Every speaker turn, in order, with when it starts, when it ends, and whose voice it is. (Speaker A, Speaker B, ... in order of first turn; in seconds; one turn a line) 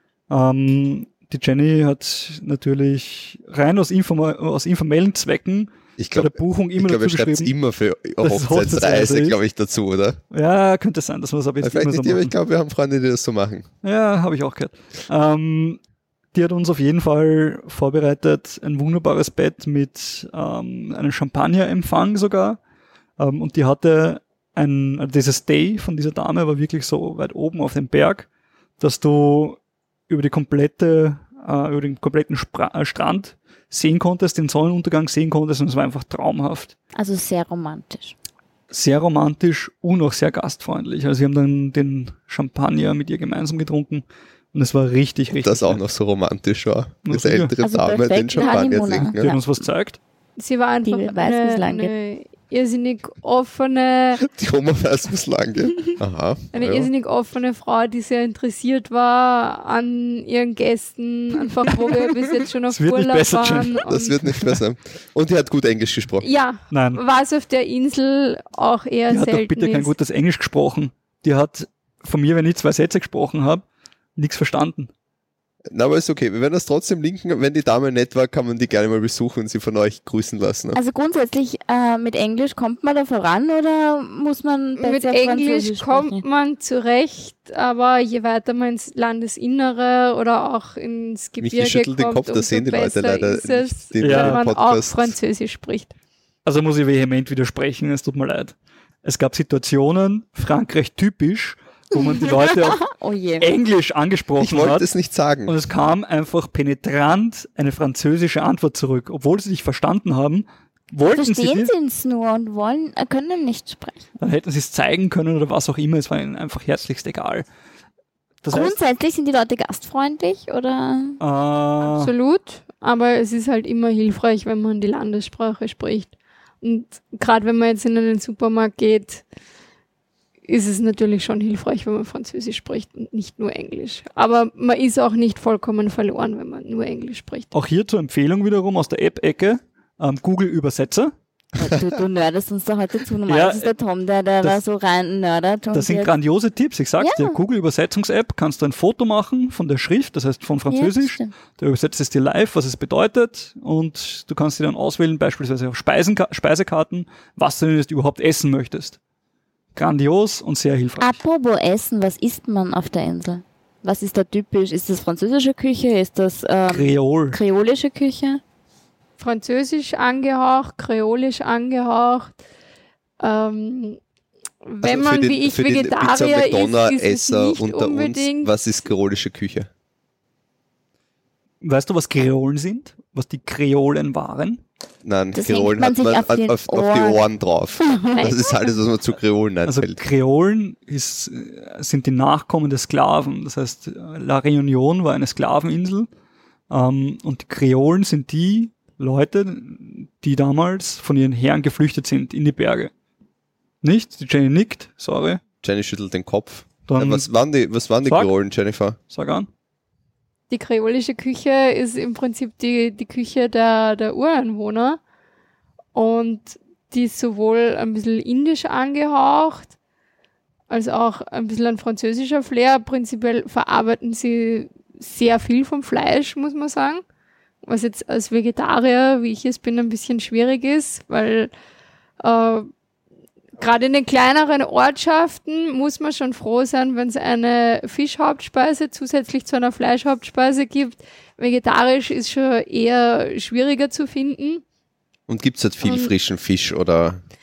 Speaker A: 0.3-7.5
Speaker B: 6.0-10.2
Speaker A: 8.2-9.4
Speaker A: 10.3-12.3
Speaker B: 11.6-13.7
Speaker A: 13.8-15.8
Speaker A: 16.3-22.6
Speaker A: 23.2-28.3
Speaker A: 28.8-36.7
Speaker C: 36.9-38.2
Speaker A: 38.7-45.8
Speaker B: 45.4-49.4
Speaker A: 47.1-47.5
Speaker C: 47.6-49.4
Speaker A: 49.0-50.0
Speaker D: 50.4-54.2
Speaker C: 50.9-51.9
Speaker B: 54.2-56.9
Speaker D: 56.5-64.2
Speaker A: 62.7-64.4
Speaker B: 63.9-66.3
Speaker D: 66.2-69.9
Speaker A: 66.7-67.0
Speaker A: 69.1-73.7
Speaker A: 74.2-74.9
Speaker B: 75.7-80.8
Speaker C: 80.7-86.2
Speaker D: 84.8-95.9
Speaker B: 91.4-95.2
Speaker A: 94.0-94.4
Speaker A: 96.5-102.8
Speaker C: 102.0-103.5
Speaker A: 103.4-104.9
Speaker B: 104.4-105.5
Speaker A: 105.5-111.7
Speaker C: 111.1-114.1
Speaker A: 114.2-117.5
Speaker A: 118.4-118.8
Speaker C: 118.5-121.2
Speaker A: 121.2-122.1
Speaker D: 121.8-129.2
Speaker D: 130.5-137.5
Speaker A: 137.5-141.1
Speaker C: 141.6-146.1
Speaker A: 143.3-143.7
Speaker A: 145.7-159.0
Speaker C: 147.0-147.4
Speaker C: 150.7-151.3
Speaker A: 159.8-161.2
Speaker C: 161.0-168.4
Speaker A: 166.7-167.4
Speaker D: 169.2-172.3
Speaker D: 173.2-174.0
Speaker D: 174.7-178.5
Speaker B: 174.8-179.7
Speaker A: 181.6-184.6
Speaker B: 185.0-190.0
Speaker C: 185.3-187.2
Speaker C: 187.8-188.5
Speaker A: 189.7-196.1
Speaker A: 196.7-202.9
Speaker A: 203.8-205.4
Speaker B: 205.6-209.0
Speaker A: 206.9-207.3
Speaker A: 208.1-208.3
Speaker A: 209.1-209.5
Speaker D: 210.5-215.0
Speaker D: 215.9-219.7
Speaker D: 220.7-227.0
Speaker D: 227.6-231.5
Speaker D: 232.2-232.7
Speaker D: 233.6-244.6
Speaker B: 245.3-247.2
Speaker D: 245.8-246.1